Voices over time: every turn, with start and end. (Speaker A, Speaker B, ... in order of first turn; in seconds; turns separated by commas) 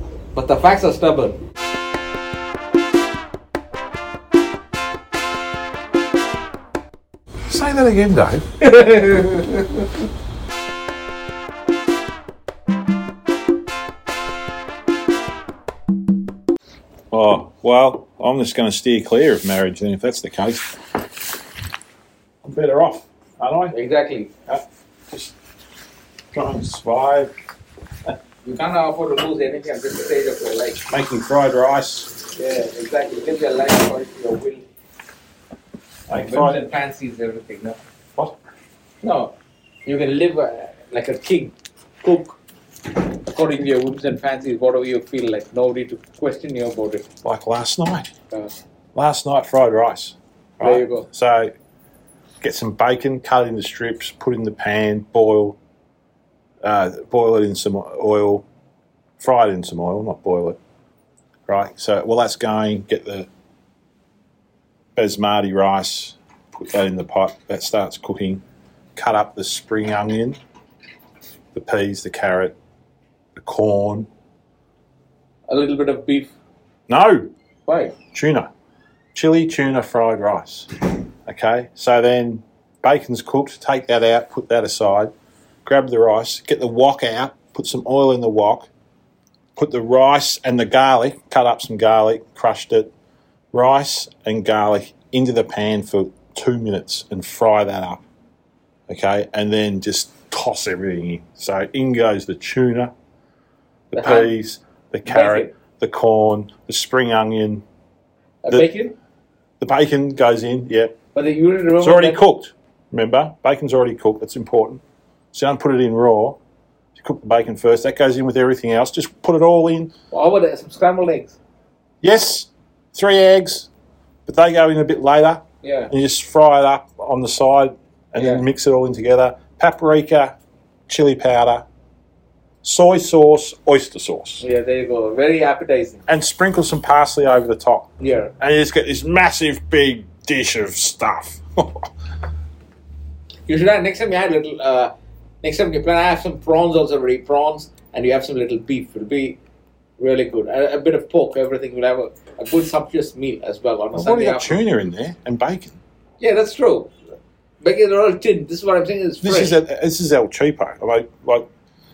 Speaker A: 0.3-1.4, Speaker B: 7.5-8.8, Speaker A: 8.8-9.5, Speaker B: 17.1-20.8, Speaker B: 22.4-23.7, Speaker A: 23.7-24.3, Speaker B: 24.5-25.3, Speaker B: 26.3-27.3, Speaker A: 28.4-30.9, Speaker B: 30.9-32.1, Speaker A: 32.4-34.6, Speaker B: 36.1-36.6, Speaker A: 36.1-37.8, Speaker A: 39.0-39.3, Speaker A: 39.9-42.4, Speaker A: 43.0-47.1, Speaker B: 47.2-48.1, Speaker B: 49.0-51.5, Speaker A: 50.6-51.1, Speaker B: 52.4-55.6, Speaker B: 56.6-58.5, Speaker B: 59.2-60.6, Speaker B: 61.5-63.3, Speaker B: 65.0-68.4, Speaker B: 69.0-70.4, Speaker B: 71.5-72.6, Speaker B: 73.4-74.1, Speaker A: 75.5-76.3, Speaker B: 76.9-77.3, Speaker A: 77.7-78.0, Speaker B: 78.1-78.5, Speaker B: 79.1-80.7, Speaker B: 81.3-85.1, Speaker B: 85.7-88.7, Speaker B: 89.6-92.9, Speaker B: 93.5-98.0, Speaker B: 98.9-102.9, Speaker B: 103.9-107.6, Speaker A: 104.0-104.3, Speaker A: 105.1-105.5, Speaker A: 108.4-108.9, Speaker B: 109.6-110.9, Speaker A: 111.1-112.2, Speaker B: 111.8-114.8, Speaker B: 115.3-116.4, Speaker B: 117.0-119.9, Speaker A: 120.1-121.4, Speaker B: 122.0-123.7, Speaker B: 124.3-130.3, Speaker A: 125.6-125.9, Speaker A: 128.2-128.5, Speaker B: 130.9-131.7, Speaker B: 132.6-134.4, Speaker A: 134.4-136.0, Speaker B: 136.1-137.9, Speaker A: 138.0-138.3, Speaker B: 138.4-141.9, Speaker A: 143.5-149.4, Speaker A: 150.0-154.6, Speaker B: 153.9-155.8, Speaker A: 156.2-156.9, Speaker A: 157.6-159.6, Speaker B: 159.2-161.5